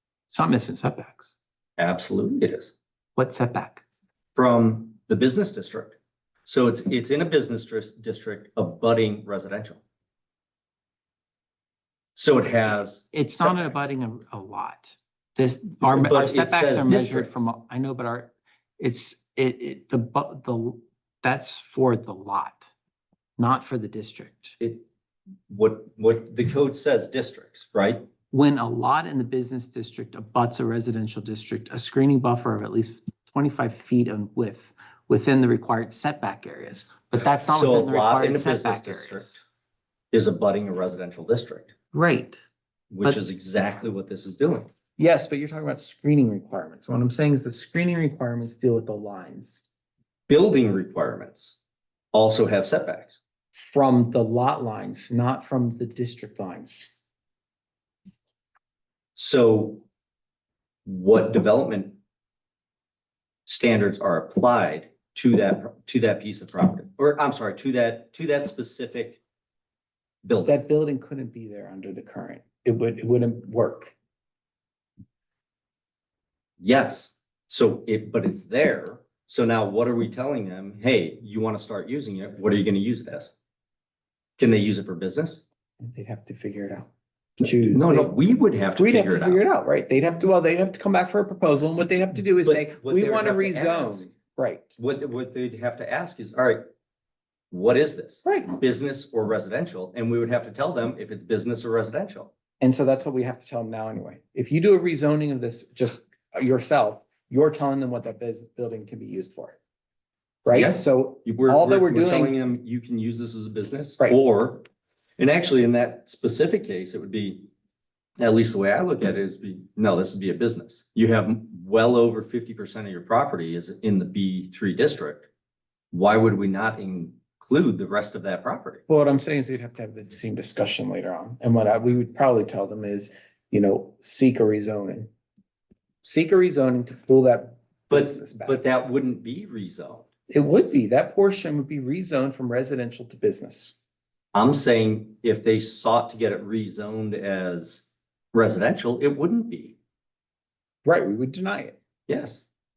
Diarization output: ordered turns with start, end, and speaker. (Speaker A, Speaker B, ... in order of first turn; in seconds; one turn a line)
Speaker A: 0.3-1.4
Speaker B: 1.8-2.7
Speaker A: 3.2-3.8
Speaker B: 4.4-9.8
Speaker B: 12.2-13.9
Speaker A: 13.1-22.7
Speaker B: 15.8-17.4
Speaker A: 23.4-24.6
Speaker B: 24.6-24.9
Speaker B: 25.5-28.1
Speaker A: 28.3-39.4
Speaker B: 37.4-39.4
Speaker B: 40.1-41.7
Speaker A: 41.9-42.4
Speaker B: 42.9-44.7
Speaker A: 45.0-49.6
Speaker B: 50.3-51.6
Speaker B: 52.1-53.2
Speaker A: 53.5-57.0
Speaker B: 59.2-59.9
Speaker B: 60.9-62.0
Speaker B: 63.5-69.2
Speaker B: 70.2-70.6
Speaker A: 70.5-73.9
Speaker B: 76.6-83.3
Speaker B: 84.4-85.4
Speaker A: 85.8-88.2
Speaker B: 87.4-89.4
Speaker A: 88.8-94.8
Speaker B: 92.4-94.1
Speaker B: 94.8-96.7
Speaker B: 97.5-102.3
Speaker A: 98.2-98.6
Speaker A: 102.6-109.6
Speaker A: 110.5-112.3
Speaker B: 110.5-114.6
Speaker B: 115.2-117.5
Speaker B: 118.2-125.3
Speaker B: 125.9-128.8
Speaker A: 128.9-135.1
Speaker A: 136.0-138.6
Speaker B: 137.9-140.1
Speaker A: 140.3-143.8
Speaker B: 144.3-149.8
Speaker A: 150.8-151.8
Speaker B: 152.1-152.4